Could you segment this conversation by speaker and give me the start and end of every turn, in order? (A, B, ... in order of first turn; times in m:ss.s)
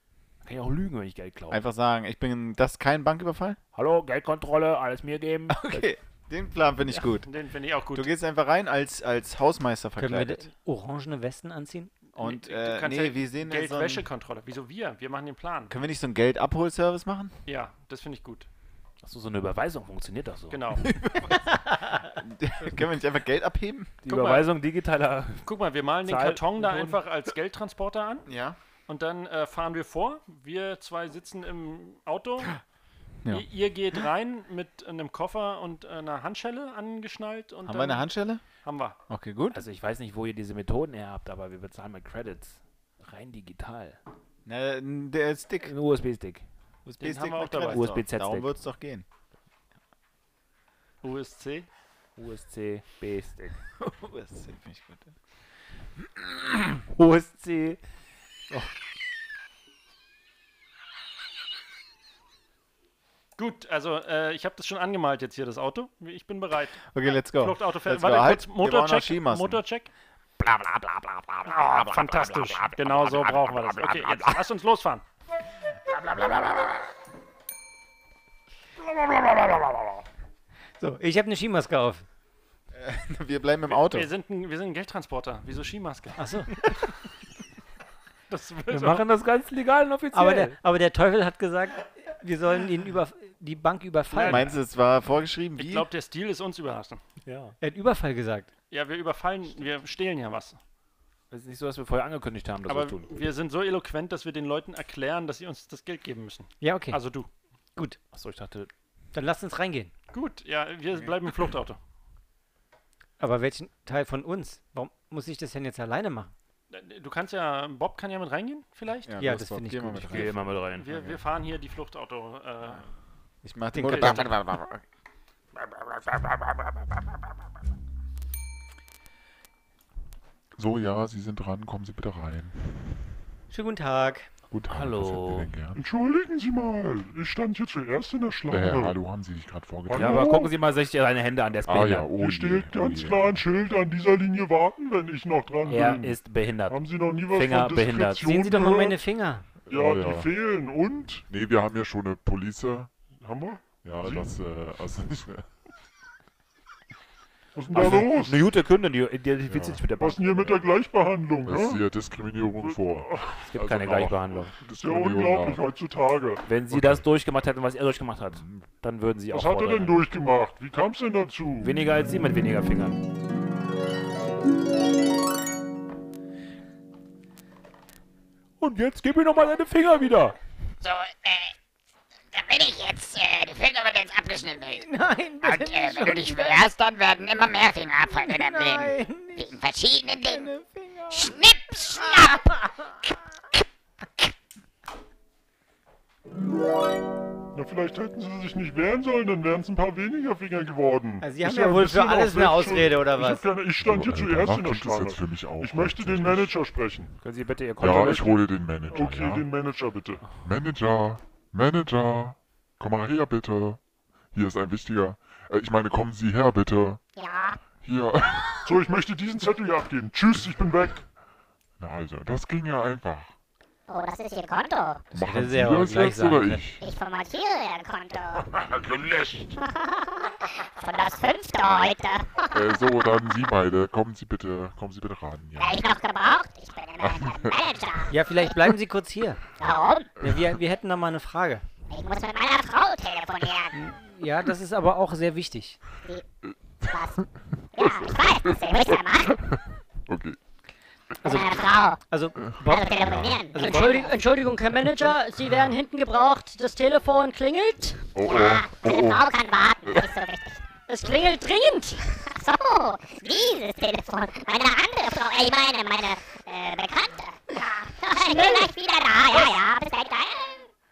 0:00.4-0:01.6 A
0:01.5-0:03.6 B
0:03.7-0:05.9 A
0:05.5-0:07.3 B
0:07.2-0:08.1 C
0:07.9-0:10.5 B
0:10.0-0:11.9 D
0:12.1-0:15.8 C
0:12.2-0:14.1 B
0:15.7-0:17.3 B
0:17.5-0:18.5 C
0:19.0-0:20.8 A
0:20.5-0:20.9 C
0:20.8-0:23.9 B
0:24.0-0:25.5 A
0:24.1-0:24.5 C
0:25.4-0:28.3 C
0:26.0-0:27.0 A
0:28.3-0:28.6 B
0:28.9-0:32.6 C
0:33.2-0:33.5 B
0:33.3-0:38.1 C
0:37.6-0:38.4 B
0:38.6-0:39.0 C
0:39.1-0:39.6 B
0:39.5-0:44.0 A
0:44.5-0:45.8 B
0:45.6-0:46.4 A
0:46.9-0:49.1 B
0:47.0-0:47.9 C
0:47.7-0:48.6 A
0:51.0-0:51.7 C
0:52.2-0:53.6 A
0:53.8-0:55.1 B
0:56.9-0:57.8 A
1:03.4-1:09.9 C
1:06.9-1:09.6 B
1:11.5-1:15.0 C
1:20.8-1:22.0 D
1:22.7-1:24.1 B
1:23.7-1:26.2 C
1:26.2-1:26.5 D
1:28.3-1:29.0 C
1:28.7-1:30.6 A
1:30.1-1:34.5 D
1:34.2-1:34.5 C
1:34.2-1:35.9 B
1:35.6-1:37.0 C
1:37.2-1:37.6 A
1:37.6-1:38.5 D
1:38.7-1:40.6 C
1:41.3-1:43.2 A
1:42.7-1:47.3 C
1:46.6-1:47.0 D
1:48.1-1:48.7 A
1:49.1-1:49.9 D
1:50.1-1:51.8 C
1:53.2-1:56.3 D
1:56.7-1:59.1 C
1:59.0-2:01.2 B
1:59.2-2:00.3 D
2:00.1-2:01.0 A
2:00.8-2:02.8 C
2:03.4-2:04.8 B
2:03.7-2:04.3 D
2:03.9-2:04.2 C
2:10.6-2:13.0 E
2:13.5-2:14.3 D
2:14.5-2:15.8 E
2:14.7-2:15.6 A
2:15.8-2:19.0 F
2:18.5-2:20.4 E
2:19.9-2:20.6 F
2:19.9-2:22.2 A
2:21.6-2:23.4 E
2:22.1-2:29.0 F
2:25.7-2:28.4 A
2:28.2-2:29.5 D
2:29.7-2:30.3 E
2:29.7-2:31.3 F
2:31.3-2:32.9 E
2:33.2-2:34.4 F
2:33.8-2:35.5 E
2:37.6-2:38.5 F
2:37.7-2:40.6 A
2:37.8-2:38.0 E
2:39.5-2:39.9 E
2:40.0-2:41.9 F
2:41.4-2:45.7 E
2:42.6-2:43.4 F
2:43.4-2:44.6 A
2:44.8-2:46.5 F
2:46.4-2:50.1 A
2:46.7-2:47.1 E
2:48.4-2:48.7 E
2:49.3-2:51.8 F
2:51.6-2:53.0 A
2:58.6-3:00.4 A
3:00.8-3:01.5 G
3:02.3-3:04.9 G
3:04.7-3:06.6 D
3:05.4-3:10.5 G
3:08.2-3:09.5 D
3:10.3-3:10.8 D
3:11.1-3:12.6 G
3:17.5-3:27.1 F
3:21.2-3:23.4 D
3:23.8-3:26.6 E
3:27.2-3:28.5 A
3:27.8-3:29.5 E
3:28.8-3:30.2 F
3:30.4-3:33.8 E
3:34.3-3:37.0 E
3:37.2-3:37.6 H
3:37.8-3:38.6 E
3:38.6-3:41.0 F
3:41.8-3:43.3 E
3:43.9-3:45.1 H
3:45.1-3:46.8 E
3:45.1-3:46.6 D
3:46.8-3:48.4 H
3:48.7-3:49.5 E
3:49.6-3:52.5 H
3:52.5-3:55.8 E
3:55.6-3:58.1 H
3:57.0-3:57.6 E
3:58.1-3:59.4 D
3:59.6-4:00.1 H
4:00.2-4:01.6 D
4:01.9-4:03.7 H
4:03.7-4:05.8 D
4:06.4-4:07.0 E
4:06.9-4:07.2 H
4:07.7-4:09.4 H
4:07.8-4:09.5 E
4:10.1-4:10.4 E
4:11.2-4:11.5 D
4:11.3-4:12.0 H
4:12.1-4:14.1 D
4:12.7-4:13.7 H
4:13.0-4:13.4 E
4:13.6-4:18.0 I
4:18.1-4:19.3 E
4:18.2-4:20.6 H
4:19.8-4:20.1 E
4:20.9-4:22.0 I
4:22.3-4:30.7 H
4:28.3-4:28.7 I